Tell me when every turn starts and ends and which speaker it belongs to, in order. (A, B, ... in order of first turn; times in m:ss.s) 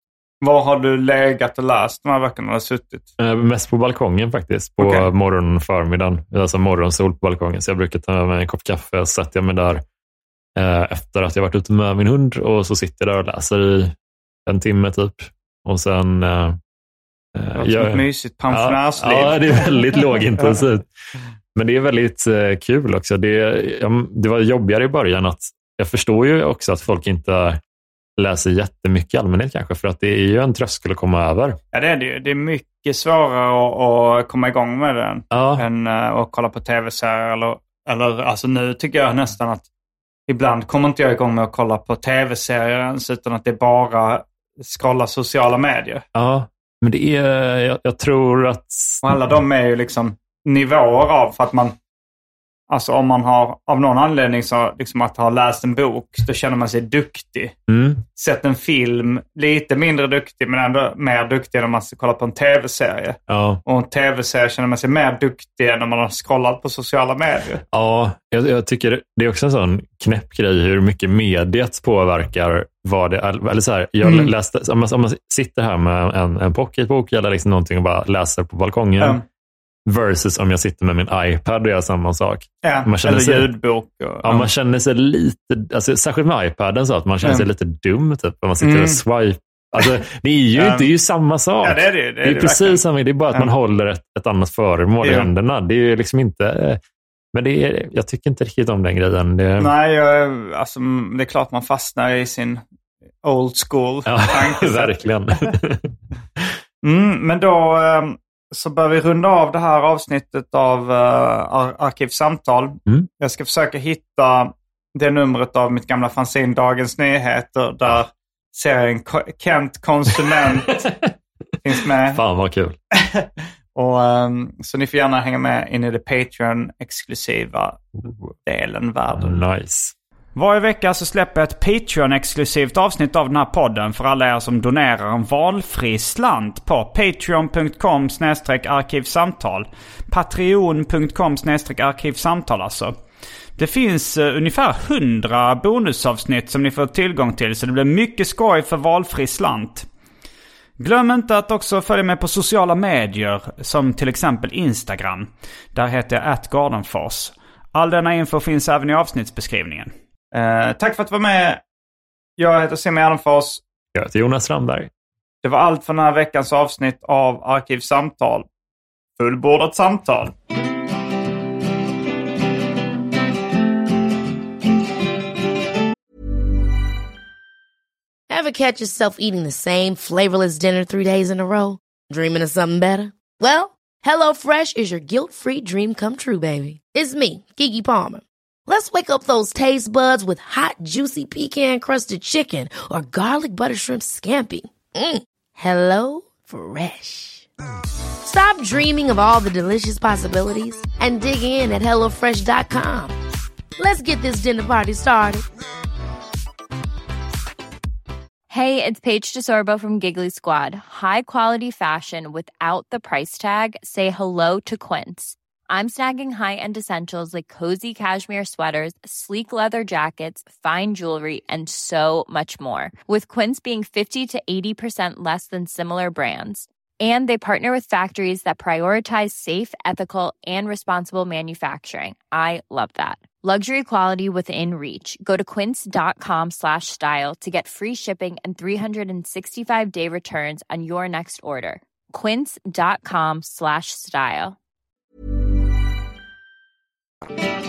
0:00.4-0:03.1 A
0:03.2-0:09.8 B
0:04.8-0:05.1 A
0:10.6-0:14.0 B
0:14.5-0:16.6 B
0:17.3-0:20.9 B
0:17.6-0:20.5 A
0:21.6-0:27.6 B
0:28.2-0:31.6 B
0:31.7-0:39.7 A
0:35.3-0:35.6 B
0:40.3-0:46.0 A
0:46.2-0:49.1 B
0:49.0-0:51.8 A
0:52.7-0:57.5 A
0:57.7-0:58.0 B
0:58.2-1:07.6 A
1:03.3-1:03.6 B
1:07.7-1:19.2 B
1:14.0-1:14.3 A
1:19.9-1:23.5 B
1:22.6-1:24.5 A
1:24.2-1:36.8 B
1:28.6-1:29.0 A
1:30.6-1:30.9 A
1:31.6-1:32.8 A
1:35.0-1:35.3 A
1:37.3-1:39.7 B
1:39.6-1:42.6 A
1:43.2-1:45.0 A
1:44.1-1:45.9 B
1:46.8-2:00.7 A
2:00.7-2:01.1 B
2:01.6-2:02.2 A
2:02.1-2:02.8 B
2:02.9-2:07.8 A
2:08.4-2:09.4 A
2:09.1-2:09.9 B
2:10.4-2:23.0 A
2:23.6-2:29.9 A
2:30.8-2:41.6 A
2:42.4-2:43.6 A
2:43.9-2:44.9 B
2:45.4-2:48.5 A
2:49.2-2:50.3 A
2:58.3-3:17.5 C
3:18.2-3:23.2 C
3:23.8-3:25.4 C
3:28.5-4:04.6 D